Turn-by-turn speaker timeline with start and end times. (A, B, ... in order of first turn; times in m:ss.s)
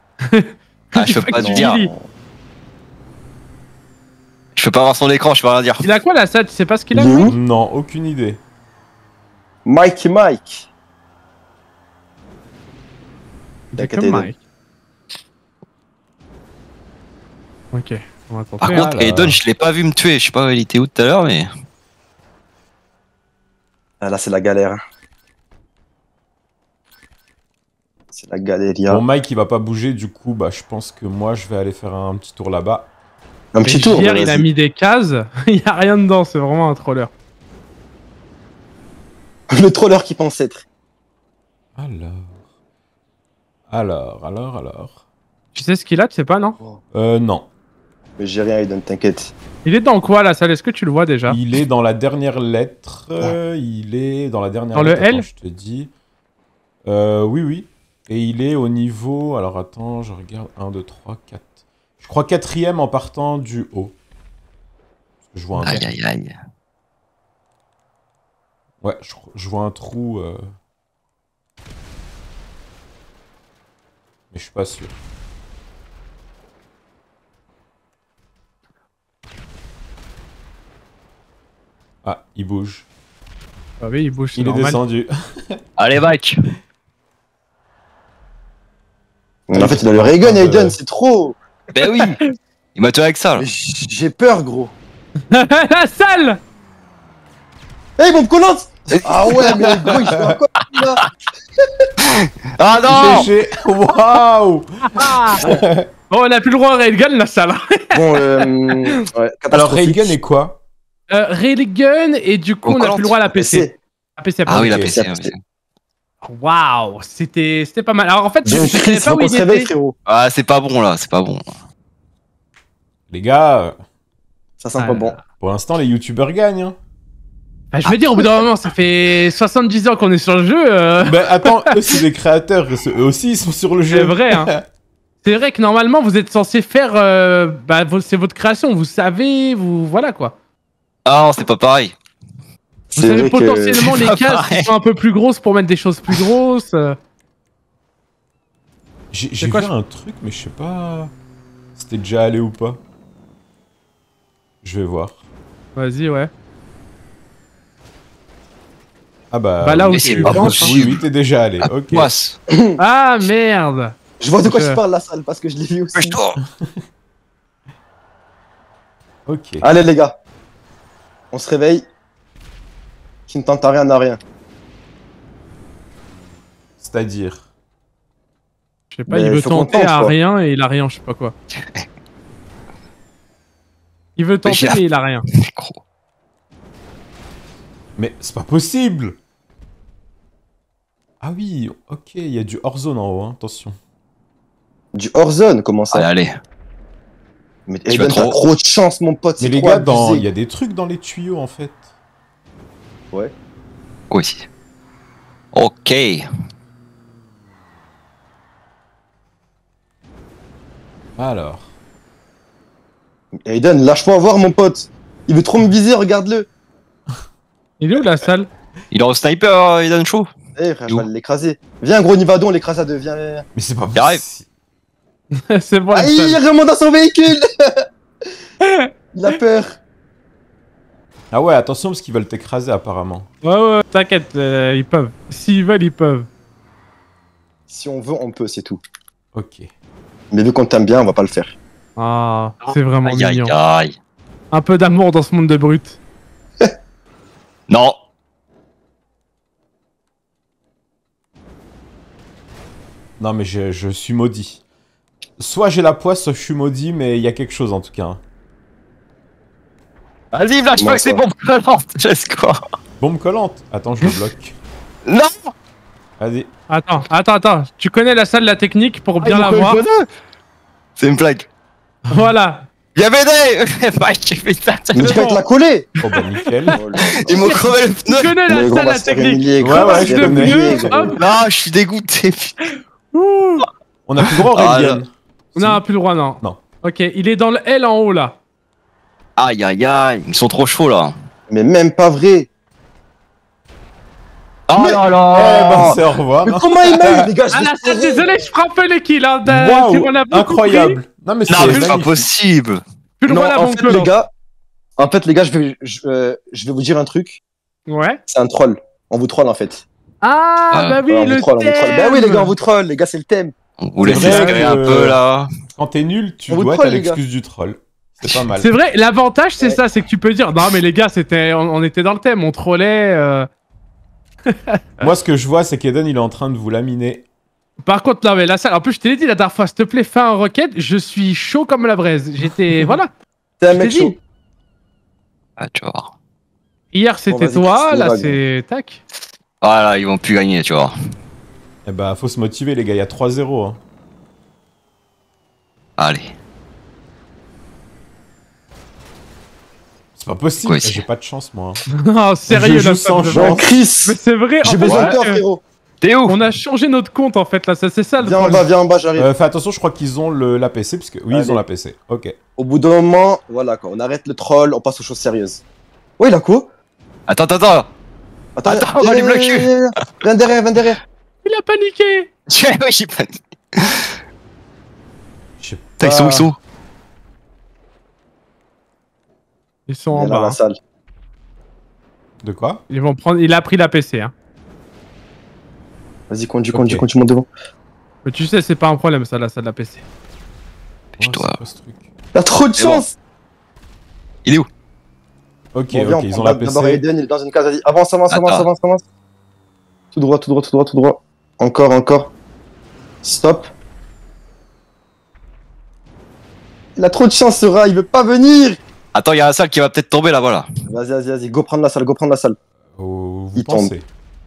0:00.2-0:01.9 A
0:00.9-0:01.9 B
0:01.4-0:02.0 C
0:04.6-0:05.9 B
0:05.8-0:07.3 A
0:06.9-0:07.3 C
0:07.2-0:08.4 D
0:09.6-0:10.7 C
0:13.7-0:14.4 A
0:13.7-0:14.3 C
0:17.7-0:18.9 A
0:18.6-0:21.5 B
0:18.7-0:19.4 D
0:24.0-0:24.8 C
0:28.1-0:29.0 C
0:28.9-0:32.9 D
0:33.5-0:34.5 C
0:33.6-0:37.1 A
0:39.5-0:40.6 C
0:41.8-0:42.4 D
0:43.7-0:44.9 D
0:45.5-0:46.6 A
0:46.9-0:47.5 D
0:48.2-0:49.3 C
0:49.6-0:51.4 A
0:51.3-0:55.9 D
0:54.7-0:55.3 A
0:56.8-1:01.4 D
1:02.0-1:03.9 D
1:05.3-1:05.8 D
1:05.6-1:06.4 B
1:08.8-1:10.5 D
1:14.3-1:15.0 D
1:22.0-1:22.8 D
1:23.8-1:24.8 A
1:24.4-1:25.6 D
1:25.8-1:26.4 B
1:29.5-1:31.4 C
1:29.5-1:30.8 D
1:31.7-1:32.2 B
1:31.8-1:32.1 A
1:32.7-1:33.4 B
1:33.4-1:34.7 C
1:35.3-1:36.4 A
1:38.0-1:41.0 C
1:38.9-1:40.1 B
1:40.7-1:41.1 B
1:42.0-1:43.3 B
1:42.8-1:45.9 D
1:44.9-1:45.4 A
1:46.1-1:49.0 A
1:47.9-1:50.2 C
1:49.5-1:50.6 D
1:51.1-1:54.9 A
1:52.6-1:53.2 B
1:53.3-1:53.7 C
1:54.4-1:55.4 B
1:54.6-1:54.9 D
1:54.8-1:55.3 C
1:56.2-1:59.7 A
1:58.4-1:59.9 C
2:00.1-2:01.4 B
2:03.1-2:03.8 D
2:04.6-2:05.2 C
2:04.8-2:05.2 A
2:05.4-2:06.8 D
2:07.7-2:11.7 A
2:11.0-2:14.6 D
2:13.9-2:14.5 A
2:15.2-2:20.3 A
2:21.0-2:21.9 B
2:22.9-2:27.0 A
2:22.9-2:23.9 C
2:23.8-2:24.7 B
2:29.1-2:31.1 D
2:29.4-2:29.7 A
2:31.7-2:32.8 D
2:34.6-2:35.2 D
2:35.8-2:36.3 A
2:39.3-2:42.1 D
2:39.6-2:40.7 A
2:39.9-2:41.0 B
2:40.2-2:40.8 C
2:41.6-2:42.4 B
2:42.5-2:42.8 C
2:42.8-2:44.8 A
2:44.2-2:46.2 C
2:45.9-2:46.4 B
2:49.2-2:49.7 D
2:49.6-2:50.2 C
2:51.3-2:51.8 C
2:53.3-2:54.2 C
2:56.8-2:57.4 D
2:58.9-3:01.3 A
2:59.1-3:00.1 C
3:04.2-3:05.2 A
3:04.4-3:04.8 B
3:05.4-3:05.8 B
3:08.0-3:09.2 D
3:11.2-3:13.8 D
3:14.9-3:16.1 C
3:15.9-3:16.3 B
3:17.7-3:20.3 C
3:17.9-3:18.4 B
3:19.4-3:21.8 D
3:24.1-3:24.4 B
3:25.5-3:26.3 B
3:31.2-3:31.7 D
3:33.4-3:36.5 C
3:37.8-3:38.5 A
3:38.9-3:40.3 B
3:40.6-3:43.4 C
3:43.5-3:44.4 D
3:43.9-3:44.2 B
3:45.3-3:46.4 A
3:45.9-3:47.8 C
3:48.6-3:48.9 A
3:49.1-3:49.8 C
3:51.3-3:53.3 D
3:53.4-3:56.3 A
3:57.7-3:58.8 C
3:59.3-3:59.7 D
4:00.3-4:01.6 C
4:02.0-4:03.5 A
4:02.7-4:04.0 B
4:04.5-4:06.0 A
4:07.7-4:08.0 B
4:13.2-4:14.6 D
4:15.4-4:18.2 D
4:20.3-4:22.6 B
4:20.8-4:21.2 C
4:23.0-4:24.5 D
4:25.0-4:25.3 B
4:26.2-4:26.5 D
4:26.7-4:29.8 A
4:29.2-4:30.1 B
4:31.0-4:31.4 B
4:32.1-4:32.6 A
4:32.9-4:35.2 B
4:34.9-4:35.9 C
4:35.0-4:35.4 A
4:36.0-4:36.8 D
4:36.7-4:37.5 C
4:37.1-4:41.3 A
4:37.3-4:38.4 B
4:38.5-4:41.2 C
4:39.6-4:41.0 D
4:41.2-4:42.5 B
4:43.1-4:43.7 A
4:44.0-4:45.8 D
4:44.4-4:45.0 B
4:45.6-4:48.4 A
4:49.4-4:51.1 B
4:51.5-4:52.5 C
4:54.7-4:56.0 B
4:54.8-4:58.4 C
4:55.3-4:57.3 D
4:57.5-5:01.0 A
4:59.4-5:02.3 D
5:01.5-5:02.8 B
5:01.6-5:02.0 A
5:03.2-5:04.1 A
5:03.3-5:04.3 C
5:05.0-5:07.4 C
5:07.9-5:08.2 A
5:08.3-5:09.8 C
5:10.2-5:12.5 A
5:10.7-5:11.0 B
5:11.1-5:13.5 C
5:13.8-5:15.5 B
5:14.0-5:15.2 D
5:14.1-5:14.8 A
5:15.8-5:18.7 D
5:16.5-5:17.2 C
5:18.6-5:23.5 A
5:24.4-5:25.1 A
5:25.0-5:27.2 D
5:27.8-5:33.1 A
5:33.6-5:34.2 C
5:33.7-5:34.1 A
5:35.6-5:36.1 B
5:36.9-5:39.0 A
5:37.3-5:38.4 C
5:39.6-5:40.9 B
5:41.8-5:43.8 D
5:46.0-5:46.3 B
5:50.2-5:51.8 D
5:50.6-5:51.0 B
5:52.1-5:55.4 A
5:52.5-5:53.7 D
5:53.3-5:55.6 C
5:54.8-5:55.2 B
5:56.0-5:56.4 B
5:56.3-5:58.7 A
5:58.2-5:59.3 C
5:59.2-6:02.3 D
6:01.3-6:01.6 C
6:02.6-6:05.6 C
6:06.2-6:06.7 C
6:07.3-6:07.9 B
6:08.6-6:11.0 C
6:08.6-6:09.7 B
6:11.4-6:12.3 A
6:12.5-6:14.1 B
6:15.6-6:15.9 D
6:16.0-6:16.6 B
6:16.0-6:16.5 C
6:19.9-6:20.6 A
6:20.1-6:20.8 C
6:22.4-6:22.8 D
6:22.9-6:24.3 A
6:26.3-6:27.5 C
6:26.7-6:27.0 D
6:28.2-6:30.0 A
6:31.2-6:31.6 B
6:31.2-6:32.0 D
6:32.3-6:33.2 C
6:32.8-6:33.0 B
6:35.7-6:37.0 D
6:35.9-6:39.0 C
6:38.3-6:38.6 B
6:40.1-6:42.3 C
6:43.2-6:43.7 C
6:47.0-6:48.8 C
6:49.1-6:50.7 B
6:50.9-6:52.6 C
6:53.0-6:54.0 D
6:53.6-6:53.9 C